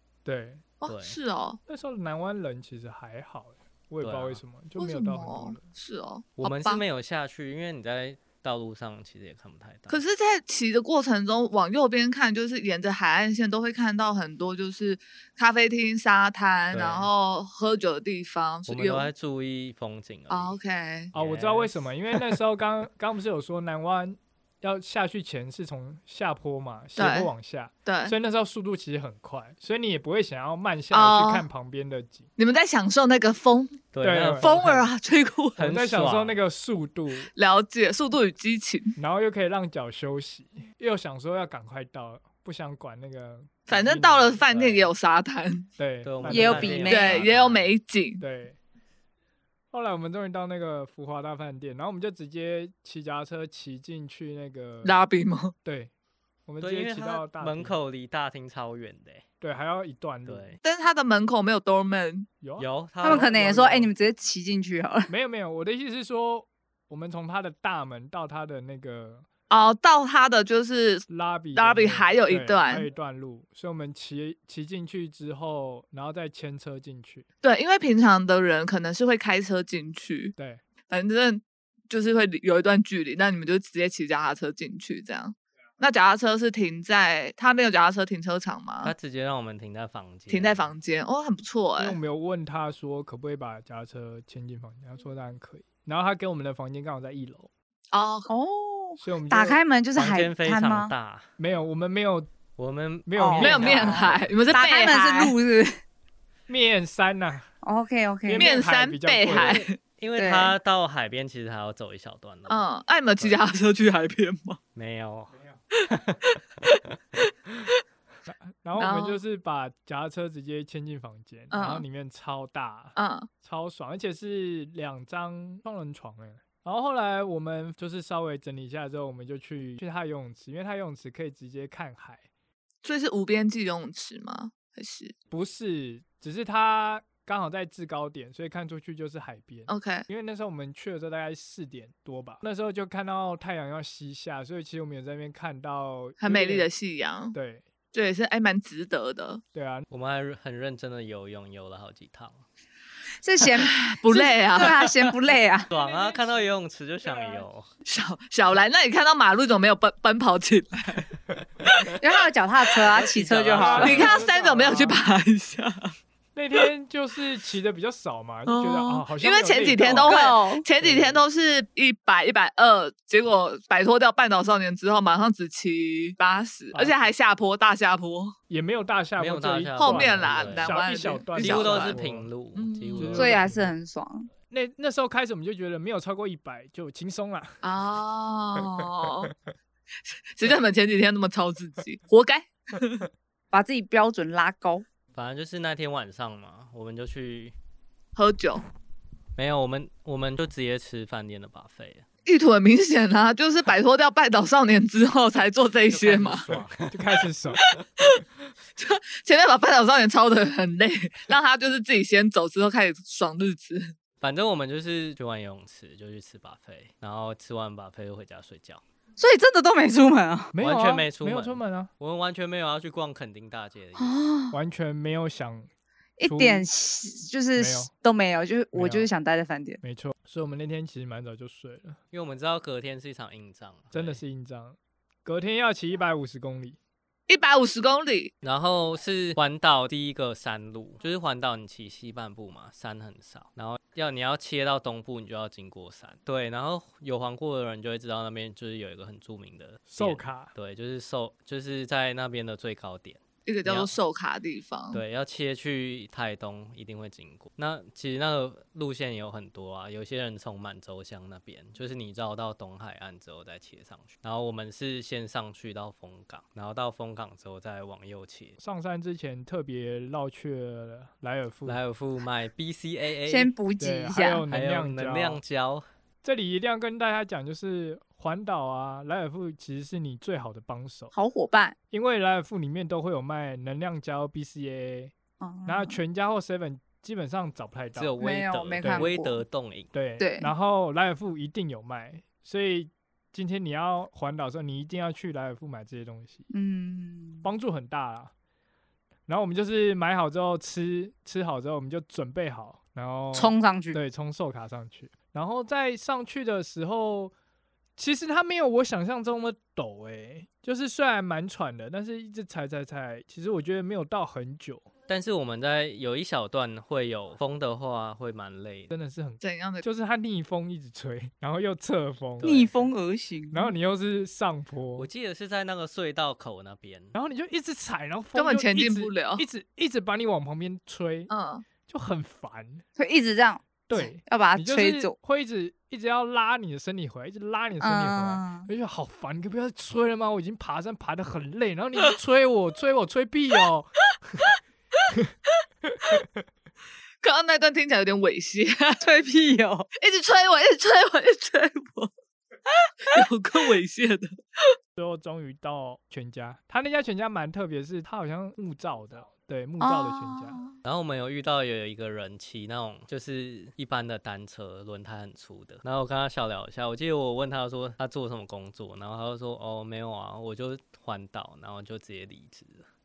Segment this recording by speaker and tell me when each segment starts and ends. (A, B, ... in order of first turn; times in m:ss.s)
0:00.2-0:00.6 A
0:00.8-0:01.6 B
0:00.9-0:01.2 C
0:01.7-0:05.6 A
0:04.0-0:04.4 C
0:04.8-0:06.8 B
0:06.4-0:10.0 C
0:09.9-0:19.1 B
0:16.7-0:17.1 C
0:18.7-0:20.5 C
0:20.3-0:21.1 B
0:21.1-0:21.8 C
0:21.2-0:32.3 A
0:27.0-0:27.3 B
0:27.8-0:28.2 B
0:30.9-0:31.5 B
0:32.4-0:33.8 B
0:33.9-0:34.9 C
0:34.0-0:34.6 A
0:34.4-0:35.7 B
0:35.6-0:36.4 C
0:35.6-0:37.3 A
0:37.4-0:39.0 B
0:39.0-0:44.5 A
0:43.7-0:45.7 B
0:44.5-0:44.9 C
0:45.8-0:46.9 A
0:46.0-0:47.7 C
0:46.3-0:47.2 D
0:46.7-0:48.2 B
0:48.2-0:48.6 A
0:49.7-0:55.0 A
0:54.8-0:55.5 B
0:55.6-0:55.9 A
0:56.5-0:57.8 A
0:56.6-0:59.2 C
0:59.4-1:00.6 A
1:00.3-1:00.6 C
1:00.6-1:02.3 B
1:02.4-1:03.9 A
1:02.6-1:03.3 C
1:03.0-1:05.1 D
1:05.1-1:09.3 A
1:09.5-1:12.9 B
1:11.1-1:17.3 A
1:17.4-1:20.4 B
1:20.9-1:28.9 B
1:28.8-1:30.7 C
1:30.3-1:32.0 B
1:31.8-1:37.5 A
1:37.9-1:38.3 B
1:38.3-1:40.9 D
1:39.0-1:39.6 A
1:40.0-1:41.3 C
1:41.4-1:42.3 A
1:42.6-1:44.7 C
1:43.1-1:44.2 A
1:43.2-1:43.9 D
1:43.4-1:45.4 B
1:44.5-1:45.8 D
1:46.5-1:47.5 A
1:47.6-1:48.5 D
1:48.2-1:49.6 A
1:48.4-1:49.8 B
1:49.2-1:52.6 C
1:50.2-1:50.6 D
1:52.5-1:54.6 B
1:54.8-1:56.7 C
1:58.3-2:12.3 A
1:58.8-1:59.2 B
2:01.5-2:01.8 B
2:03.0-2:03.3 B
2:12.8-2:15.1 B
2:15.3-2:26.7 A
2:19.7-2:20.0 B
2:26.2-2:27.4 B
2:27.3-2:27.6 A
2:27.9-2:29.4 B
2:29.5-2:29.9 A
2:29.9-2:32.4 C
2:33.2-2:35.7 D
2:33.6-2:35.0 B
2:35.7-2:37.7 C
2:37.9-2:42.0 B
2:42.0-2:44.1 D
2:42.9-2:44.3 C
2:43.6-2:45.0 A
2:43.8-2:45.9 B
2:46.4-2:50.2 A
2:48.5-2:58.4 B
2:49.8-2:50.6 D
2:50.8-2:51.2 A
2:56.7-2:57.1 A
2:58.5-3:02.3 A
2:59.2-3:00.8 C
2:59.8-3:02.0 B
3:01.4-3:03.4 C
3:02.6-3:03.2 B
3:03.0-3:03.7 A
3:03.2-3:04.3 D
3:04.5-3:07.6 A
3:07.6-3:09.3 B
3:10.1-3:13.1 B
3:13.5-3:14.8 D
3:15.1-3:17.6 C
3:18.2-3:18.6 B
3:19.4-3:22.0 C
3:22.3-3:26.6 B
3:25.9-3:27.2 C
3:26.8-3:27.6 A
3:28.8-3:34.0 B
3:34.2-3:38.8 C
3:39.2-3:40.5 D
3:40.5-3:41.9 A
3:40.6-3:44.2 C
3:44.0-3:44.6 D
3:44.5-3:45.7 A
3:46.2-3:49.8 D
3:46.2-3:46.7 A
3:47.6-3:47.9 A
3:48.7-3:49.1 A
3:49.8-3:52.0 A
3:52.1-3:54.2 C
3:53.9-3:56.8 A
3:57.3-3:58.3 B
3:58.4-4:14.0 C
4:09.9-4:10.5 A
4:13.5-4:15.0 B
4:14.9-4:28.6 C
4:28.6-4:31.8 A
4:31.6-4:33.5 C
4:33.3-4:34.5 D
4:33.8-4:35.4 A
4:34.5-4:35.8 C
4:36.2-4:41.1 A
4:41.1-4:41.8 D
4:41.9-4:45.1 A
4:45.4-4:46.0 D
4:45.7-4:48.2 A
4:48.0-4:49.9 C
4:48.2-4:49.4 D
4:48.8-4:49.1 A
4:49.9-4:56.4 A
4:50.2-4:50.5 D
4:56.5-4:57.5 D
4:57.4-4:58.3 A
4:59.3-5:07.3 A
5:03.3-5:04.0 D
5:08.0-5:14.9 A
5:15.1-5:18.9 C
5:18.9-5:22.7 A
5:19.4-5:19.8 B
5:22.4-5:22.7 C
5:22.4-5:23.7 D
5:23.5-5:25.1 A
5:25.0-5:27.2 C
5:27.2-5:31.3 A
5:28.4-5:29.4 B
5:31.3-5:31.6 B
5:31.9-5:32.8 A
5:33.0-5:35.2 D
5:33.9-5:44.5 A
5:37.8-5:38.7 D
5:45.8-5:46.2 A
5:47.2-5:49.0 B
5:49.0-5:49.9 D
5:50.0-5:52.1 B
5:53.0-5:54.7 B
5:55.0-6:00.6 A
5:59.8-6:00.7 D
6:00.8-6:12.9 C